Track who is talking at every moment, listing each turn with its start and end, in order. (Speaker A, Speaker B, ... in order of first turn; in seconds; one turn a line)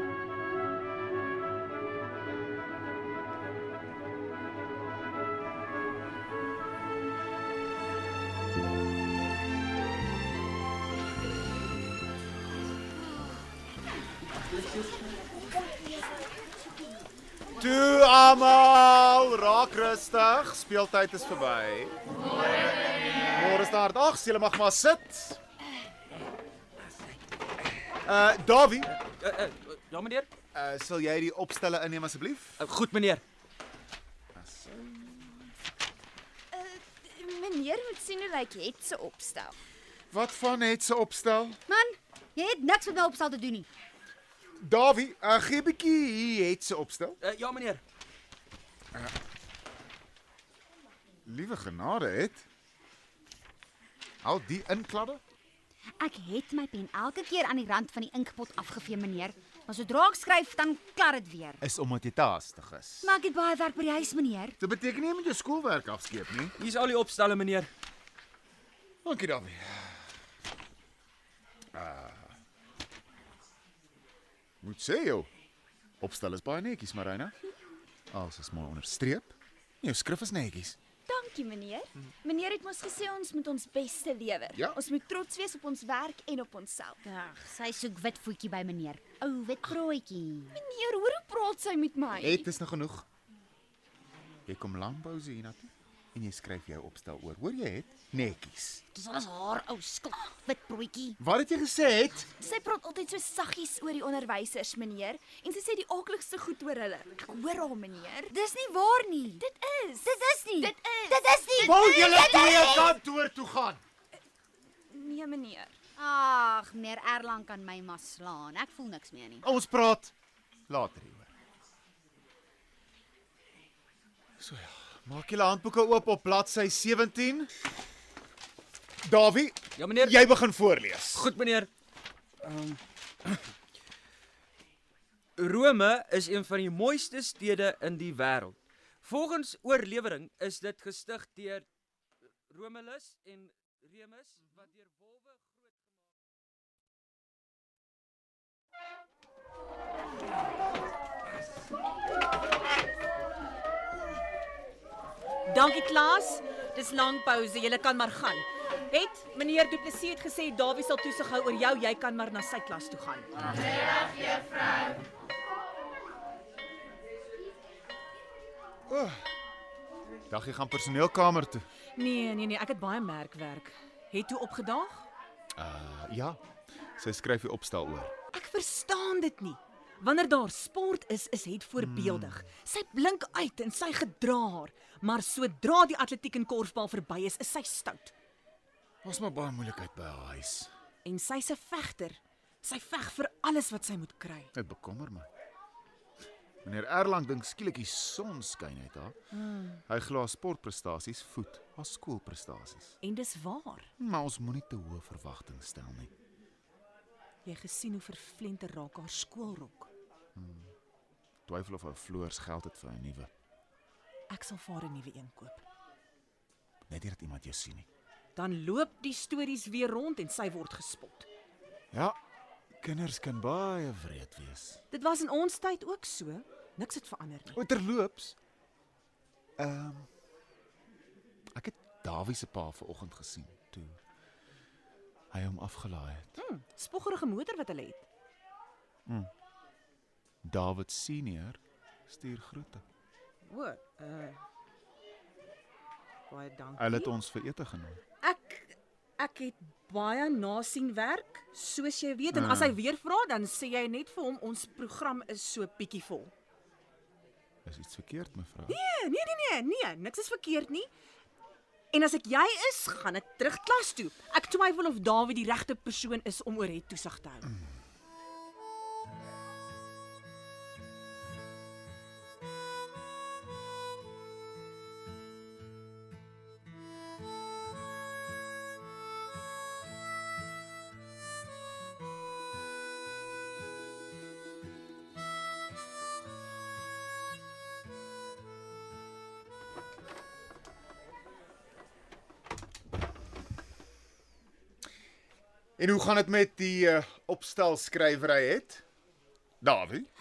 Speaker A: 17.6-21.9
Speaker A: 23.3-25.4
Speaker A: 28.0-28.9
Speaker B: 29.0-30.3
Speaker A: 30.5-32.6
Speaker B: 32.6-33.2
Speaker A: 34.3-35.5
Speaker C: 36.5-39.5
Speaker A: 40.1-41.6
Speaker D: 41.7-43.7
Speaker A: 44.6-47.2
Speaker B: 47.2-47.8
Speaker A: 51.2-52.5
Speaker A: 54.2-55.2
Speaker D: 56.0-61.6
Speaker A: 61.6-63.2
Speaker D: 63.0-64.6
Speaker A: 64.6-66.5
Speaker B: 66.6-67.7
Speaker A: 69.0-70.1
Speaker A: 71.7-72.3
Speaker A: 74.6-75.3
Speaker A: 76.0-77.3
Speaker A: 78.1-80.8
Speaker C: 81.1-87.4
Speaker D: 87.4-90.6
Speaker C: 90.5-92.5
Speaker A: 92.2-93.0
Speaker A: 94.5-98.8
Speaker D: 98.9-101.2
Speaker A: 101.2-102.3
Speaker C: 102.4-108.3
Speaker D: 108.3-109.4
Speaker C: 109.4-112.9
Speaker D: 110.0-112.9
Speaker A: 111.6-113.8
Speaker C: 114.9-115.7
Speaker D: 116.0-119.4
Speaker A: 119.4-120.1
Speaker A: 120.7-121.3
Speaker A: 124.4-127.5
Speaker A: 129.0-131.3
Speaker B: 129.8-130.2
Speaker B: 131.1-131.7
Speaker B: 132.4-133.4
Speaker B: 135.4-141.7
Speaker B: 142.5-145.5
Speaker E: 155.4-163.3
Speaker A: 168.9-169.2
Speaker A: 170.3-171.7
Speaker E: 171.9-175.1
Speaker A: 175.6-176.4
Speaker A: 177.0-178.1
Speaker E: 178.3-188.1
Speaker A: 181.8-182.4
Speaker A: 189.0-190.7
Speaker E: 191.0-194.5
Speaker A: 194.5-195.3
Speaker A: 196.6-199.2
Speaker E: 199.3-199.8
Speaker A: 199.8-203.0
Speaker E: 203.0-203.9
Speaker A: 204.0-206.1
Speaker E: 207.4-209.9
Speaker A: 210.3-210.7
Speaker A: 211.5-213.3
Speaker E: 214.3-215.6
Speaker A: 216.9-217.9
Speaker E: 218.3-221.2
Speaker A: 221.9-222.2
Speaker A: 222.8-224.8
Speaker E: 224.9-227.6
Speaker A: 227.5-228.3
Speaker A: 229.6-230.1
Speaker A: 231.5-234.0
Speaker A: 235.3-236.3
Speaker E: 236.4-238.0
Speaker A: 240.4-242.8
Speaker E: 243.5-244.4
Speaker E: 246.3-247.1
Speaker A: 246.8-248.0
Speaker E: 248.2-256.3
Speaker A: 252.3-252.8
Speaker A: 257.6-258.8
Speaker E: 258.7-260.9
Speaker E: 261.9-267.5
Speaker A: 295.8-298.8
Speaker A: 299.6-300.1